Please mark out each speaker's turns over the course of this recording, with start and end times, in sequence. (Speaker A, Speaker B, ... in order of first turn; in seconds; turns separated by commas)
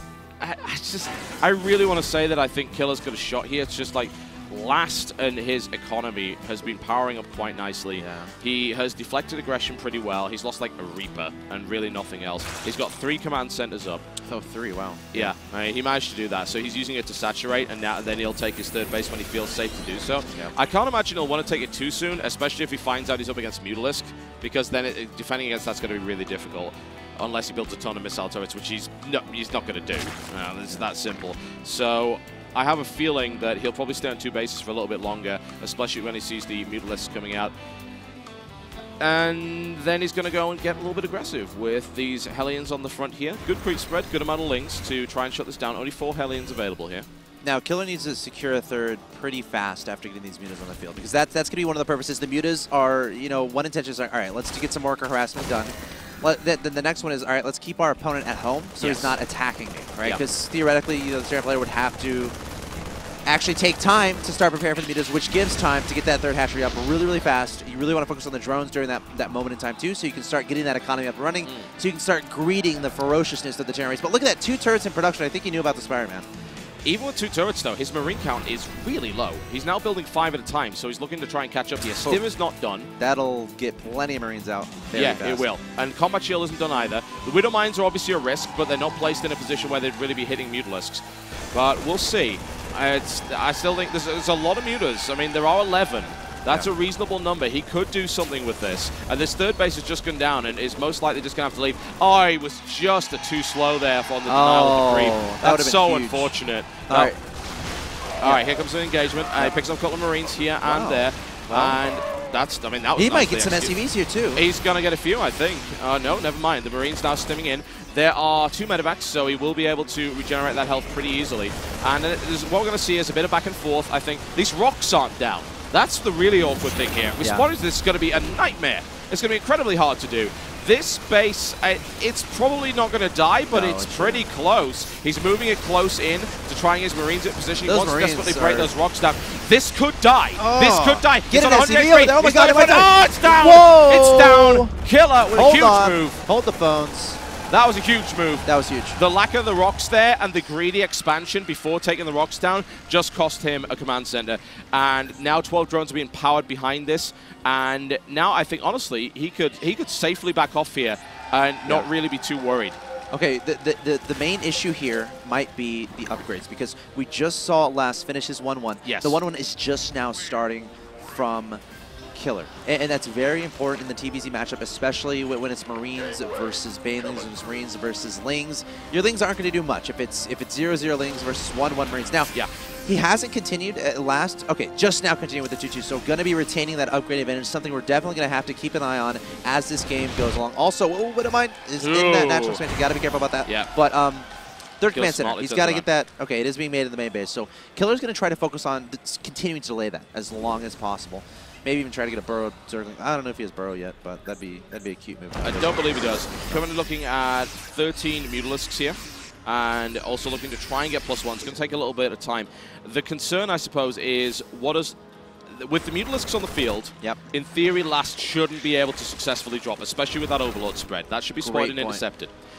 Speaker A: 0.4-14.1, Speaker B: 8.0-8.3, Speaker B: 14.2-15.3, Speaker A: 15.1-37.5, Speaker A: 39.0-47.1, Speaker B: 47.4-62.4, Speaker A: 58.8-59.2, Speaker B: 63.3-76.3, Speaker A: 71.4-71.7, Speaker A: 76.8-82.9, Speaker B: 83.0-85.5, Speaker A: 84.9-107.1, Speaker B: 104.3-106.3, Speaker B: 106.9-107.2, Speaker A: 108.2-113.8, Speaker B: 108.2-108.6, Speaker B: 110.6-111.8, Speaker B: 113.0-114.4, Speaker A: 114.3-146.2, Speaker B: 133.5-134.2, Speaker B: 137.7-138.7, Speaker B: 140.4-144.8, Speaker B: 145.3-147.2, Speaker A: 147.5-162.8, Speaker B: 148.4-149.0, Speaker B: 163.1-171.6, Speaker A: 168.8-169.2, Speaker B: 172.2-194.3, Speaker A: 191.8-192.6, Speaker B: 194.8-205.9, Speaker A: 194.9-195.9, Speaker A: 205.4-215.0, Speaker A: 215.5-222.3, Speaker B: 221.4-222.0